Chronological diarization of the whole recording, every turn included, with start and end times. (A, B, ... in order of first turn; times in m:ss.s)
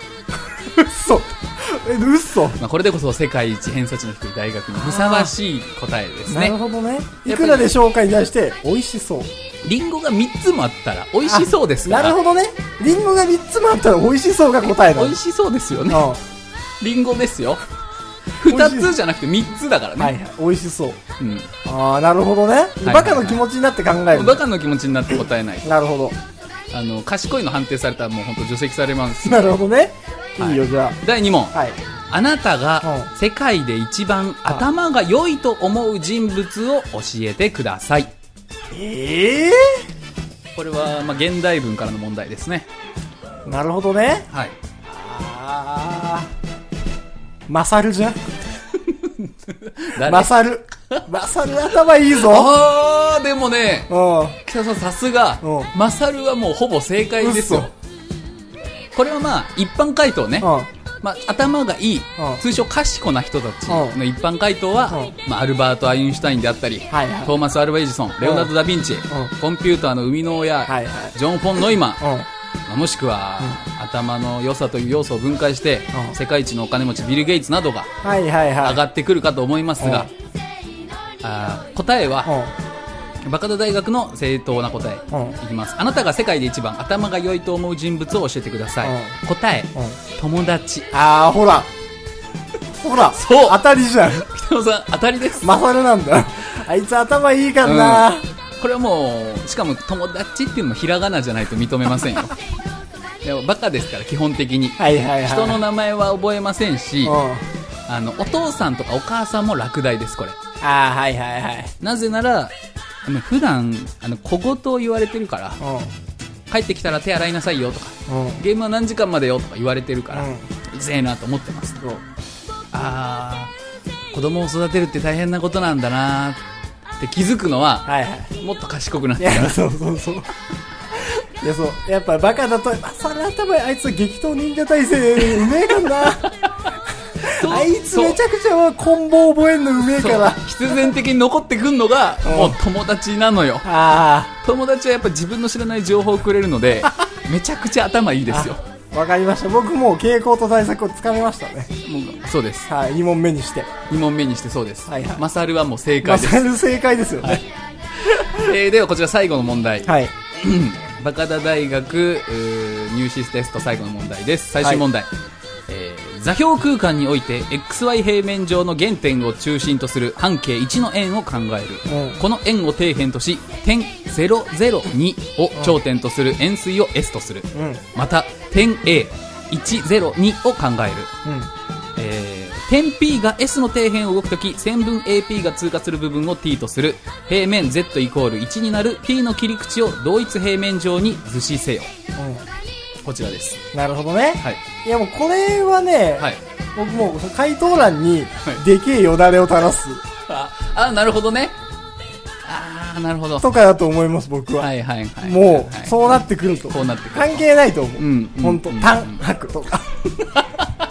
0:00.4-0:02.6 A
0:02.6-0:06.6 B
0:04.7-0:05.3 A
0:06.3-0:09.3 A
0:07.3-0:07.7 B
0:09.6-0:12.2 B
0:11.3-0:15.2 A
0:14.7-0:16.1 B
0:15.9-0:16.2 A
0:16.8-0:17.6 B
0:18.4-0:20.1 B
0:18.5-0:18.9 A
0:20.0-0:21.0 A
0:21.2-0:21.5 B
0:21.6-0:24.4 A
0:22.8-0:23.4 B
0:24.1-0:25.7 B
0:25.6-0:26.2 A
0:26.7-0:29.5 B
0:29.2-0:31.0 A
0:30.4-0:31.6 B
0:32.1-0:38.1 B
0:32.8-0:33.1 A
0:38.7-0:39.8 A
0:40.6-0:42.7 B
0:43.5-0:44.3 A
0:44.3-0:44.6 B
0:44.9-0:46.3 A
0:47.5-0:48.3 A
0:48.7-0:50.3 B
0:50.0-0:52.5 A
0:52.1-0:53.9 B
0:53.9-0:54.4 A
0:54.5-0:57.7 B
0:55.4-0:55.7 A
0:57.2-0:57.7 A
0:59.0-1:00.5 B
1:00.4-1:00.7 A
1:01.0-1:12.1 B
1:03.7-1:04.0 A
1:06.9-1:07.3 A
1:08.2-1:08.5 A
1:10.7-1:11.2 A
1:12.0-1:12.3 A
1:12.7-1:17.9 B
1:18.0-1:18.8 A
1:18.6-1:20.1 B
1:19.8-1:20.1 A
1:21.2-1:22.3 B
1:22.3-1:22.5 A
1:23.2-1:30.9 B
1:25.1-1:25.4 A
1:28.8-1:29.2 A
1:30.9-1:31.7 A
1:32.7-1:34.3 A
1:33.1-1:35.6 B
1:35.4-1:38.2 A
1:37.6-1:42.4 B
1:43.2-1:47.2 B
1:44.8-1:45.6 A
1:47.0-1:47.5 A
1:47.9-1:50.4 B
1:50.6-1:51.7 A
1:51.8-1:52.5 B
1:53.1-1:55.6 B
1:55.6-1:55.9 A
1:56.5-2:01.8 B
1:58.1-1:58.4 A
2:00.1-2:00.5 A
2:02.7-2:03.5 B
2:04.1-2:06.4 B
2:07.0-2:09.6 B
2:07.9-2:08.4 A
2:09.2-2:10.3 A
2:11.4-2:16.3 A
2:15.9-2:16.5 B
2:17.2-2:20.4 A
2:17.2-2:18.2 B
2:20.0-2:23.7 B
2:22.2-2:22.6 A
2:23.6-2:24.3 A
2:24.4-2:28.6 B
2:28.3-2:31.7 A
2:31.8-2:32.7 B
2:32.7-2:33.7 A
2:33.9-2:36.5 B
2:34.9-2:35.2 A
2:36.0-2:37.4 A
2:38.0-2:45.1 B
2:39.9-2:40.1 A
2:45.7-3:01.1 B
2:51.9-2:52.2 A
2:57.5-2:57.8 A
3:01.2-3:01.5 A
3:02.0-3:11.9 B
3:12.2-3:12.4 A
3:13.0-3:13.6 B
3:13.7-3:20.0 A
3:20.2-3:21.6 B
3:22.4-3:23.5 B
3:23.4-3:24.7 A
3:24.6-3:27.4 B
3:25.2-3:29.9 A
3:28.0-3:29.2 B
3:30.2-3:30.8 B